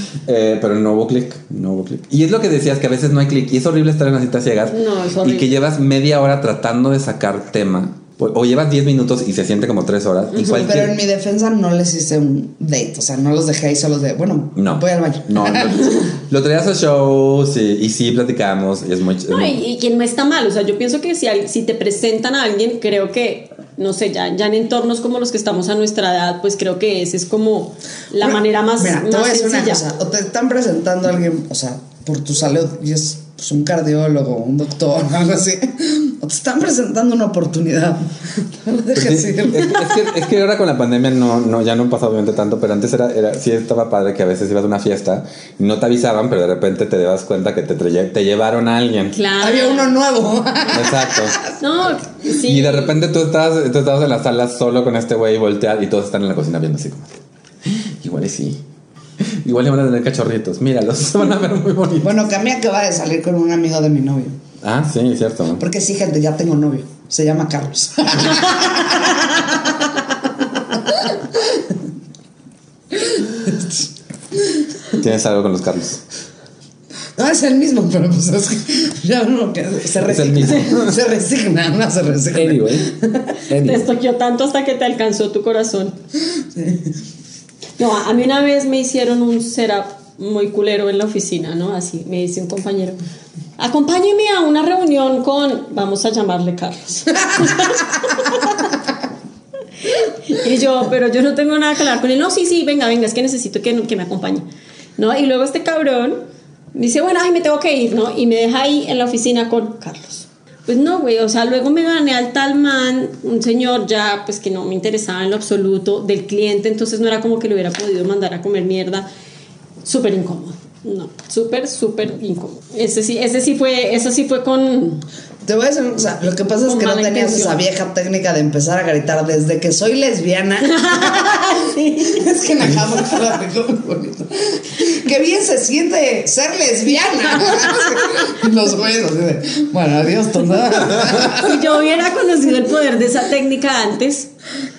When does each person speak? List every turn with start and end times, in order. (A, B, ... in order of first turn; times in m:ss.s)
0:00.2-0:11.0 A
0:04.7-0:05.5 B
0:10.4-0:15.9 C
0:14.6-0:19.6 A
0:19.3-0:29.8 B
0:28.2-0:39.9 C
0:38.9-0:49.1 A
0:49.1-0:50.0 B
0:49.4-0:51.5 C
0:50.7-0:51.4 A
0:51.6-0:53.0 B
0:52.4-0:57.1 A
0:57.6-0:58.6 A
0:59.2-1:02.2 A
1:02.0-1:04.4 C
1:04.6-1:05.6 A
1:05.6-1:10.0 C
1:10.7-1:11.6 C
1:12.9-1:13.8 C
1:14.9-1:16.0 A
1:17.2-1:23.4 C
1:20.0-1:20.9 A
1:22.3-1:22.9 A
1:23.5-1:23.8 A
1:23.6-1:26.0 B
1:26.3-1:26.9 C
1:27.8-1:33.0 B
1:33.6-1:38.8 B
1:39.8-1:44.4 B
1:45.0-1:46.2 B
1:46.7-1:59.1 B
1:59.8-2:05.0 B
2:05.4-2:21.6 C
2:06.6-2:07.6 B
2:10.6-2:12.3 B
2:17.4-2:17.9 B
2:21.2-2:24.3 B